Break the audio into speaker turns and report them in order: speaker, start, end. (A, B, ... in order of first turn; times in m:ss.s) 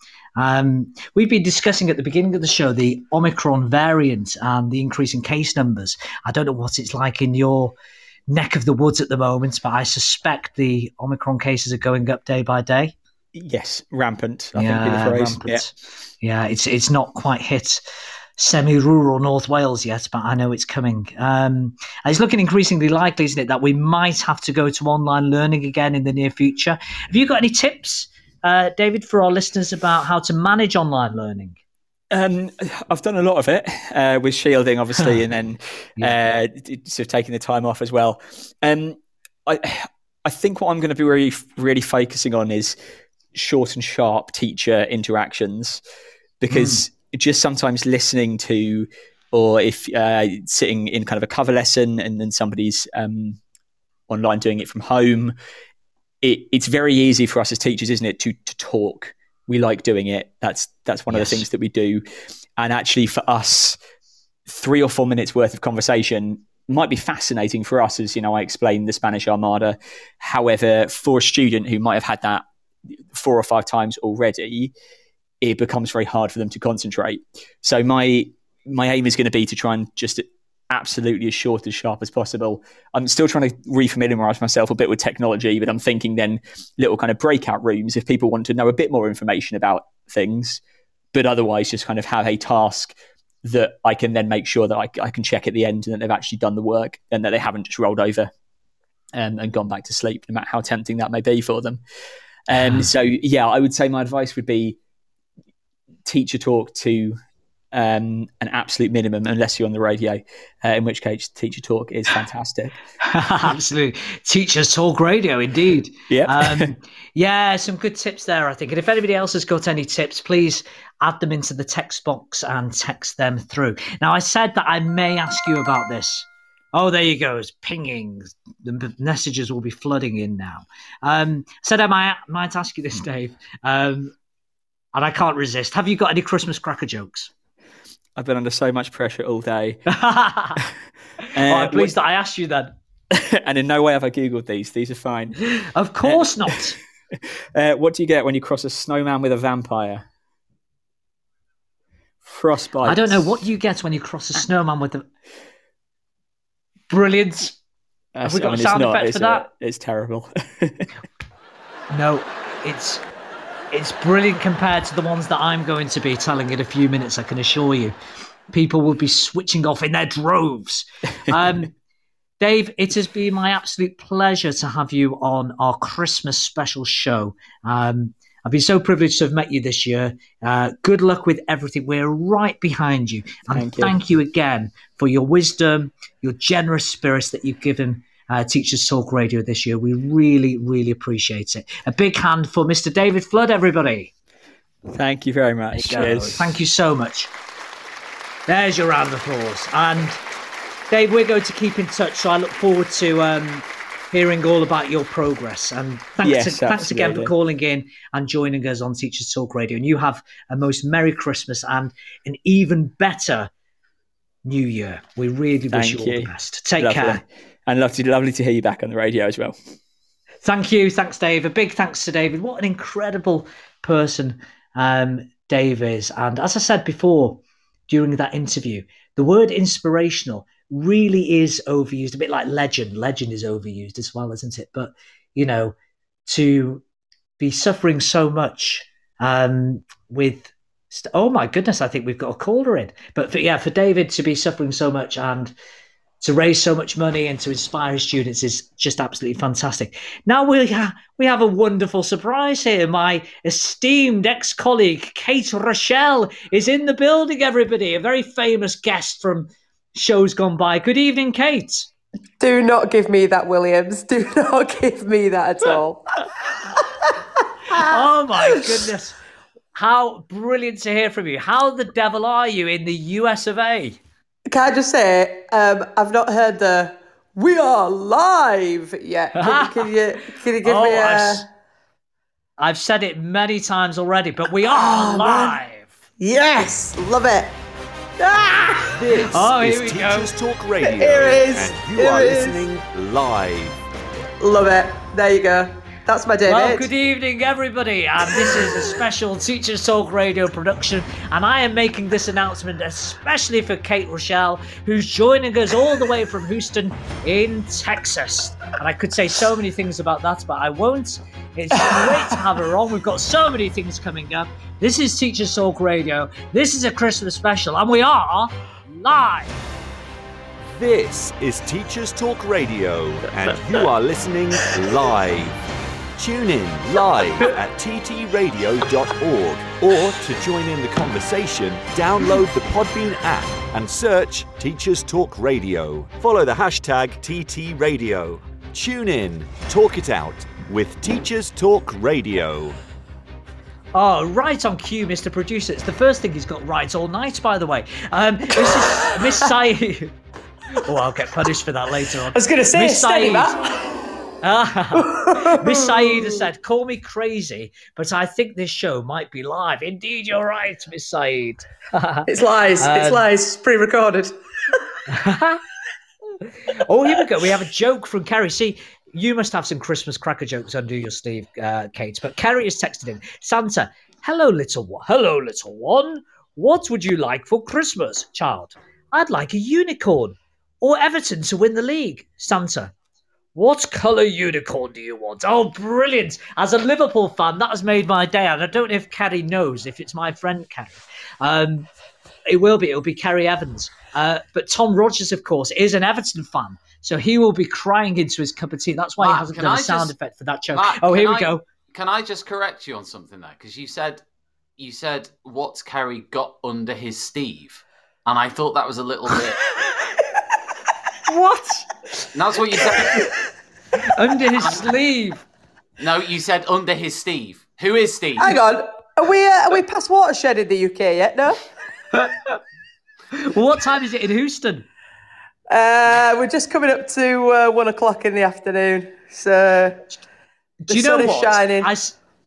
0:00.4-0:07.8 A
0:08.3-0:13.0 A
0:13.4-0:15.7 B
0:14.6-0:17.8 A
0:18.4-0:31.6 A
0:32.1-0:42.8 B
0:43.3-0:45.8 B
0:46.4-0:53.4 B
0:46.5-0:46.8 A
0:54.1-0:55.4 B
0:56.2-1:02.0 B
1:01.1-1:01.4 A
1:02.6-1:03.8 B
1:04.5-1:12.4 B
1:13.1-1:14.7 B
1:15.4-1:30.6 B
1:31.1-1:38.3 B
1:39.1-1:41.8 B
1:42.5-1:44.8 B
1:46.0-1:47.2 B
1:47.7-1:52.8 B
1:53.0-2:14.1 A
1:56.1-1:56.7 B
2:14.9-2:17.3 A
2:18.2-2:19.9 B
2:19.9-2:20.6 A
2:21.3-2:22.7 A
2:21.4-2:21.9 B
2:23.1-2:25.4 B
2:25.6-2:26.8 A
2:26.0-2:26.6 B
2:27.6-2:30.0 B
2:32.2-2:33.3 B
2:32.8-2:35.0 A
2:36.9-2:37.6 A
2:38.1-2:40.9 B
2:38.2-2:39.5 A
2:41.9-2:43.0 A
2:43.7-2:48.0 A
2:48.5-2:51.7 A
2:52.4-3:14.1 A
3:03.5-3:04.0 B
3:14.9-3:16.5 B
3:15.7-3:17.3 A
3:18.5-3:20.2 A
3:20.9-3:33.5 A
3:26.2-3:27.3 B
3:34.4-3:37.2 A
3:35.7-3:39.6 B
3:40.4-3:55.8 A
3:56.3-3:56.8 A
3:57.4-4:05.5 A
4:06.2-4:21.9 A
4:22.4-4:26.1 C
4:27.8-4:29.2 A
4:29.8-4:34.0 A
4:34.5-4:41.4 C
4:39.3-4:39.8 A
4:40.6-4:41.4 A
4:42.6-4:46.0 A
4:44.7-4:45.6 C
4:46.2-4:47.6 C
4:48.2-4:49.0 C
4:48.9-4:53.9 D
4:49.2-4:50.3 A
4:50.8-4:52.6 C
4:54.4-4:56.9 C
4:56.4-5:19.6 A
5:12.0-5:12.3 C
5:20.6-5:25.6 D
5:26.2-5:42.8 D
5:43.9-5:50.1 A
5:48.6-5:49.4 C
5:50.7-5:53.6 A
5:52.3-5:53.9 C
5:54.4-6:02.3 A
5:54.9-5:56.4 C
6:02.3-6:04.3 C
6:02.8-6:03.3 A
6:05.1-6:05.6 A
6:06.4-6:22.9 A
6:23.6-6:31.9 A
6:32.4-6:41.6 A
6:39.2-6:40.1 E
6:40.7-6:44.2 E
6:44.8-6:49.6 E
6:51.3-6:51.9 A
6:52.3-6:53.3 E
6:54.0-6:55.4 A
6:54.6-6:54.9 E
6:56.0-6:58.6 E
6:58.4-7:01.6 C
7:02.2-7:02.5 A
7:03.3-7:04.9 A
7:05.7-7:10.1 C
7:10.9-7:11.9 C
7:10.9-7:12.2 A